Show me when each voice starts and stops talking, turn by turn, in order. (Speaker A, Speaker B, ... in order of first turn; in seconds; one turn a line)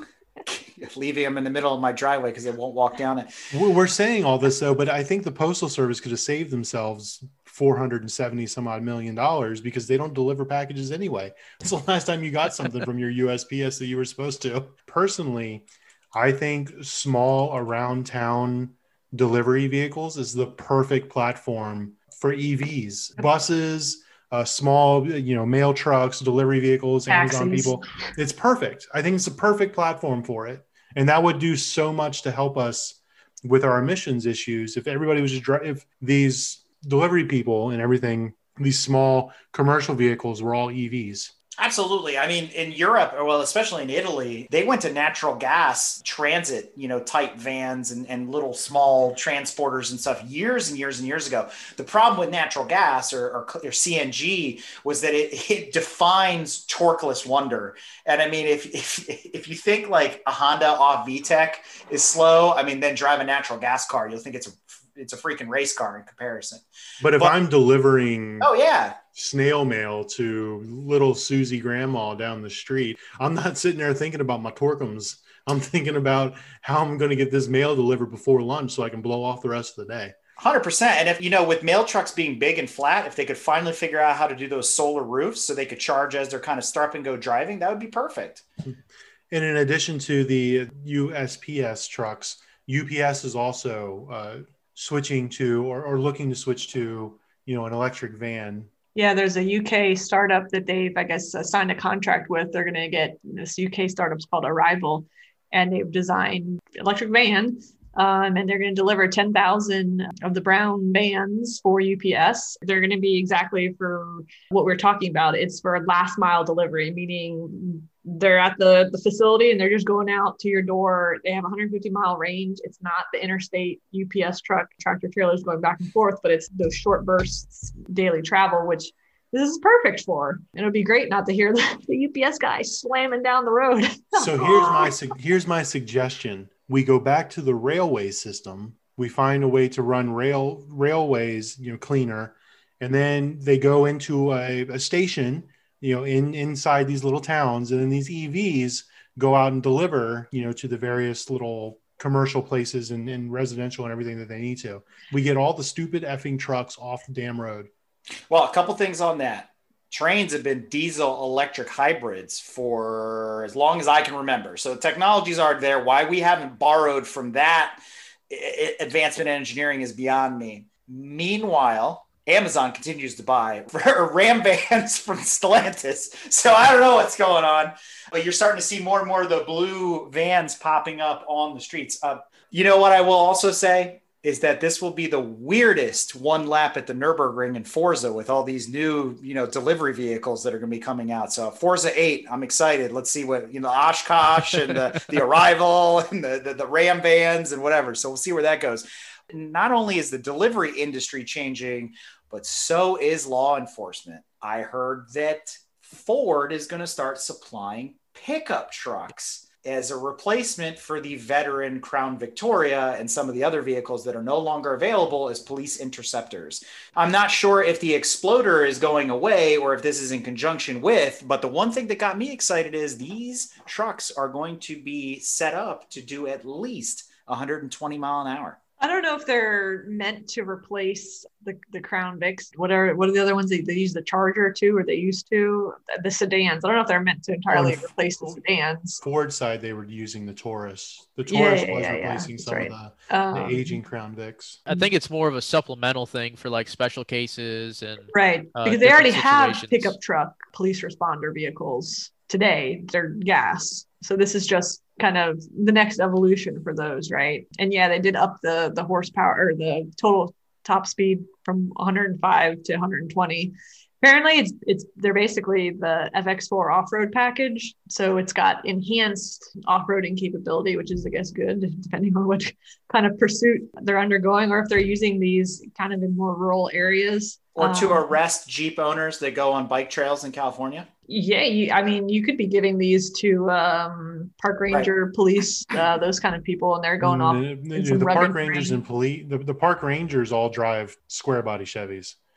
Speaker A: 0.5-3.4
Speaker B: 3.5-41.3
Speaker C: 27.1-27.8
Speaker A: 41.6-66.7
Speaker B: 67.0-68.5
Speaker A: 68.4-69.0
Speaker B: 69.1-80.2
Speaker A: 80.4-88.5
Speaker B: 89.3-98.7
Speaker C: 99.0-134.9
Speaker B: 134.2-157.7
Speaker A: 158.3-167.8
Speaker A: 168.3-228.6
Speaker C: 228.8-239.0
Speaker B: 237.5-238.4
Speaker B: 239.0-244.6
Speaker C: 241.3-243.8
Speaker D: 244.7-249.9
Speaker C: 248.1-278.1
Speaker A: 277.6-280.9
Speaker C: 281.1-288.8
Speaker B: 287.0-292.2